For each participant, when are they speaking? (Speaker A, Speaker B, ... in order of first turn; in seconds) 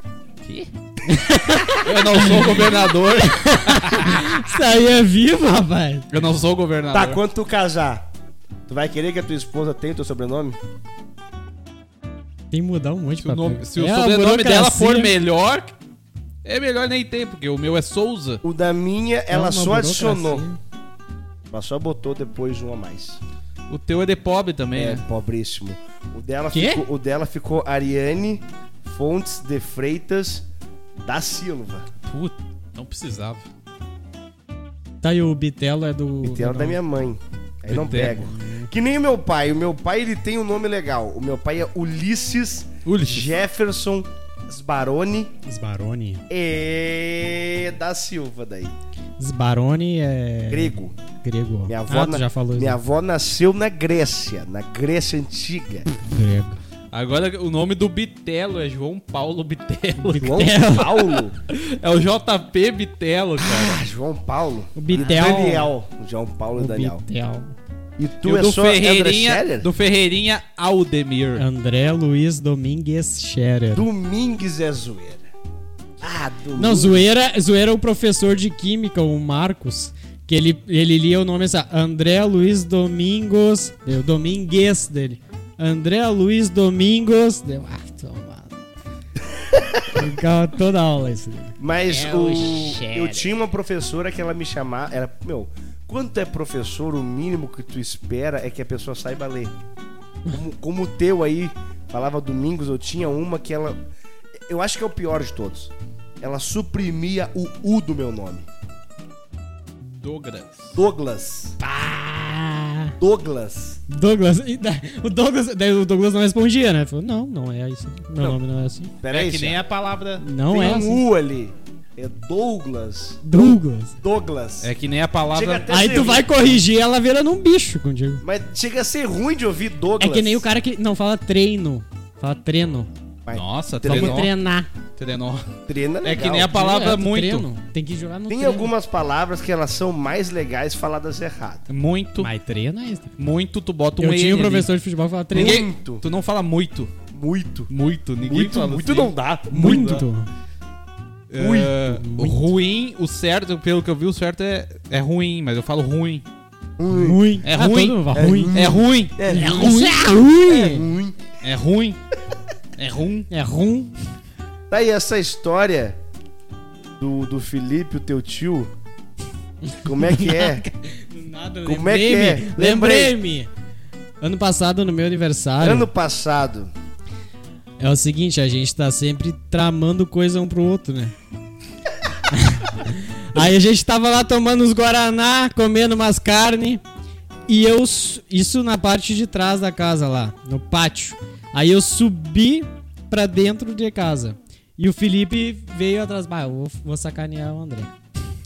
Speaker A: 0.4-0.7, 1.8-4.4, 6.1-7.2, 13.2-15.7, 16.4-18.4, 23.7-25.0, 32.1-33.5, 37.7-38.3, 42.9-43.3, 56.9-60.5, 61.5-63.8, 64.9-65.2, 68.2-71.5, 91.9-93.2, 109.8-110.8, 119.1-120.2, 124.6-126.2, 133.3-134.3, 135.0-135.5, 136.0-137.5, 141.7-142.3, 143.2-144.7, 145.3-146.9, 147.7-150.0, 151.3-156.2, 157.4-160.2, 161.4-162.0, 162.8-163.3
Speaker B: 1.1-6.1, 12.5-15.1, 19.3-20.6, 26.5-26.9, 35.0-36.8, 38.2-38.7, 45.5-46.2, 49.2-52.8, 56.0-56.6, 60.0-61.2, 64.8-65.7, 66.6-67.5, 71.4-73.9, 76.6-88.5, 89.9-91.5, 111.6-113.0, 113.9-118.9, 120.2-121.0, 123.2-124.0, 125.7-128.2, 130.0-132.9, 133.8-134.7, 136.5-138.7, 142.2-143.1, 144.0-145.6, 149.5-150.3, 152.0-152.4, 156.9-158.6, 159.3-160.9, 163.3-163.9, 169.7-173.5, 174.2-175.9, 177.8-181.2, 182.3-186.8, 187.5-197.9
Speaker C: 6.9-8.1, 8.7-10.6, 18.4-20.5, 21.5-23.2, 24.8-30.4, 31.0-31.9, 36.2-45.3, 46.3-48.8, 50.5-51.0, 51.7-55.9, 60.1-61.4, 63.4-67.0, 68.0-69.7, 73.7-75.3, 76.0-77.0, 89.5-90.0, 91.6-99.5, 100.3-103.8, 104.5-108.5, 110.8-111.5, 113.0-113.8, 119.0-119.6, 120.5-124.7, 125.3-126.3, 128.2-130.4, 133.2-134.3, 135.7-136.5, 138.3-141.7, 145.3-146.0, 147.1-147.7, 148.2-150.1, 151.4-151.9, 156.8-157.2, 158.1-159.8, 160.5-161.2, 164.7-166.0, 167.0-168.7, 169.8-170.7, 171.7-173.2, 175.6-176.7